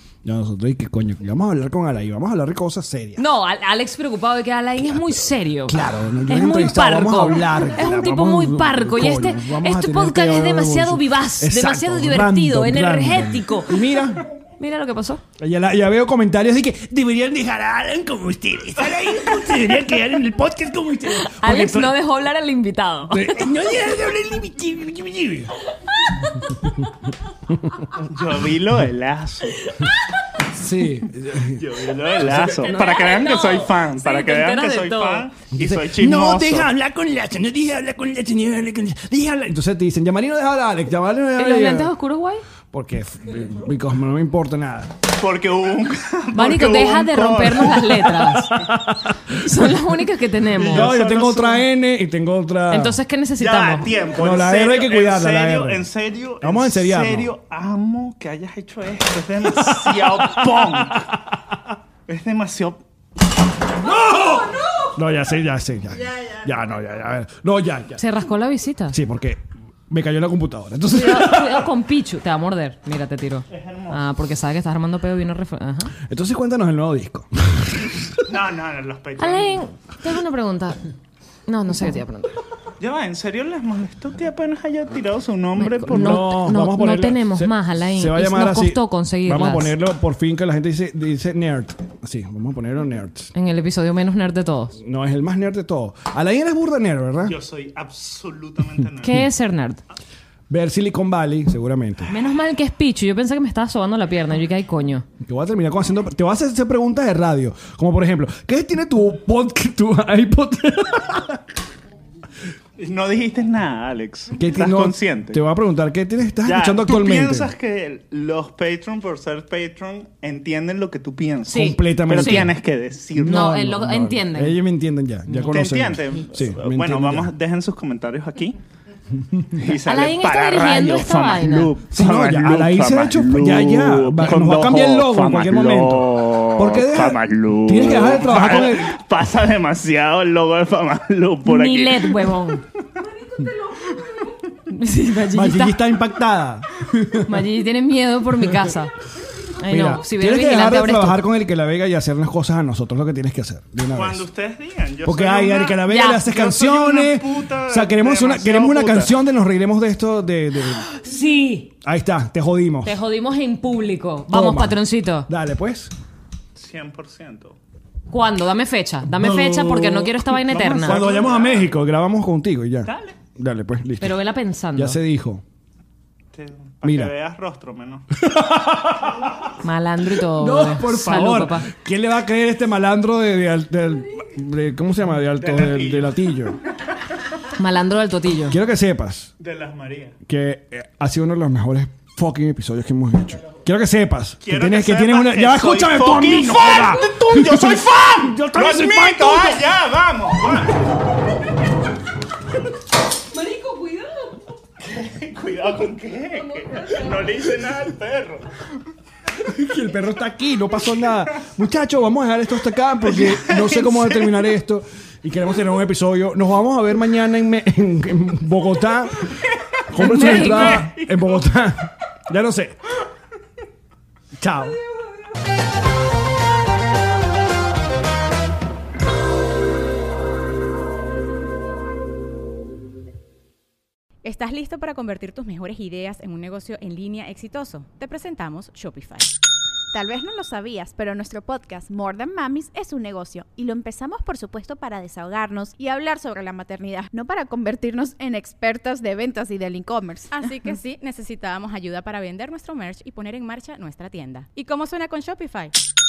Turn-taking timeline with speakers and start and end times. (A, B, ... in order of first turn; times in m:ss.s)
0:00.2-0:03.2 A
0:03.2-0:13.8 B
0:04.9-0:14.2 A
0:14.6-0:15.2 B
0:15.4-0:21.9 A
0:18.8-0:19.5 C
0:21.2-0:23.4 B
0:23.1-0:25.5 A
0:25.9-0:26.8 B
0:28.0-0:29.6 C
0:29.6-0:30.2 B
0:30.5-0:31.6 A
0:31.6-0:36.7 C
0:32.2-0:35.3 B
0:32.2-0:32.5 A
0:35.6-0:41.9 A
0:41.4-0:42.4 B
0:42.7-0:44.9 A
0:45.1-0:48.3 C
0:46.3-0:48.6 B
0:48.5-0:49.8 A
0:49.3-0:50.9 B
0:50.6-0:51.6 C
0:50.6-0:53.0 A
0:52.7-0:53.9 B
0:53.4-1:01.1 C
0:54.2-0:55.9 A
0:56.4-0:57.3 A
0:59.6-1:01.0 A
1:02.1-1:02.8 C
1:03.8-1:08.0 A
1:08.0-1:09.0 B
1:08.9-1:11.7 A
1:10.9-1:15.9 B
1:13.5-1:14.0 C
1:16.1-1:18.2 A
1:18.2-1:19.6 C
1:19.2-1:20.9 B
1:21.5-1:22.4 B
1:22.8-1:26.3 C
1:25.6-1:29.7 B
1:25.8-1:33.3 A
1:33.3-1:34.8 B
1:34.8-1:37.3 A
1:37.2-1:39.2 C
1:39.0-1:39.8 B
1:40.5-1:42.1 A
1:42.1-1:45.0 B
1:45.2-1:51.4 A
1:52.8-1:55.4 C
1:54.4-1:57.5 A
1:56.4-2:03.5 C
2:01.5-2:02.5 B
2:01.5-2:02.5 A
2:03.2-2:07.3 A
2:03.2-2:04.6 B
2:05.3-2:06.2 B
2:05.5-2:08.6 C
2:09.5-2:22.3 C
2:09.8-2:11.8 B
2:11.9-2:19.0 A
2:21.4-2:22.6 B
2:24.7-2:25.8 B
2:25.3-2:27.4 A
2:27.3-2:28.9 B
2:29.6-2:31.2 B
2:29.7-2:34.2 A
2:33.9-2:39.1 C
2:35.0-2:40.9 A
2:35.8-2:36.2 B
2:41.0-2:41.7 B
2:41.8-2:43.0 A
2:42.8-2:45.3 B
2:44.3-2:45.9 A
2:46.6-2:47.6 C
2:48.1-2:51.0 B
2:49.1-2:54.2 A
2:50.5-2:51.8 C
2:52.8-2:53.2 C
2:54.0-2:55.0 B
2:54.7-2:55.4 A
2:56.3-2:58.1 C
2:56.8-2:57.1 A
2:58.2-2:59.3 A
2:59.6-3:01.7 B
3:00.3-3:06.6 A
3:05.4-3:06.2 C
3:07.6-3:08.6 B
3:08.5-3:09.3 A
3:09.4-3:10.1 C
3:10.3-3:19.6 A
3:14.4-3:20.9 C
3:23.3-3:24.4 B
3:24.8-3:28.5 C
3:26.3-3:27.1 B
3:29.4-3:39.2 A
3:33.0-3:34.5 C
3:39.9-3:42.8 A
3:39.9-3:41.5 C
3:40.2-3:40.8 B
3:44.4-3:44.8 A
3:54.2-3:59.3 D
3:59.9-4:10.5 E
4:10.3-4:15.7 D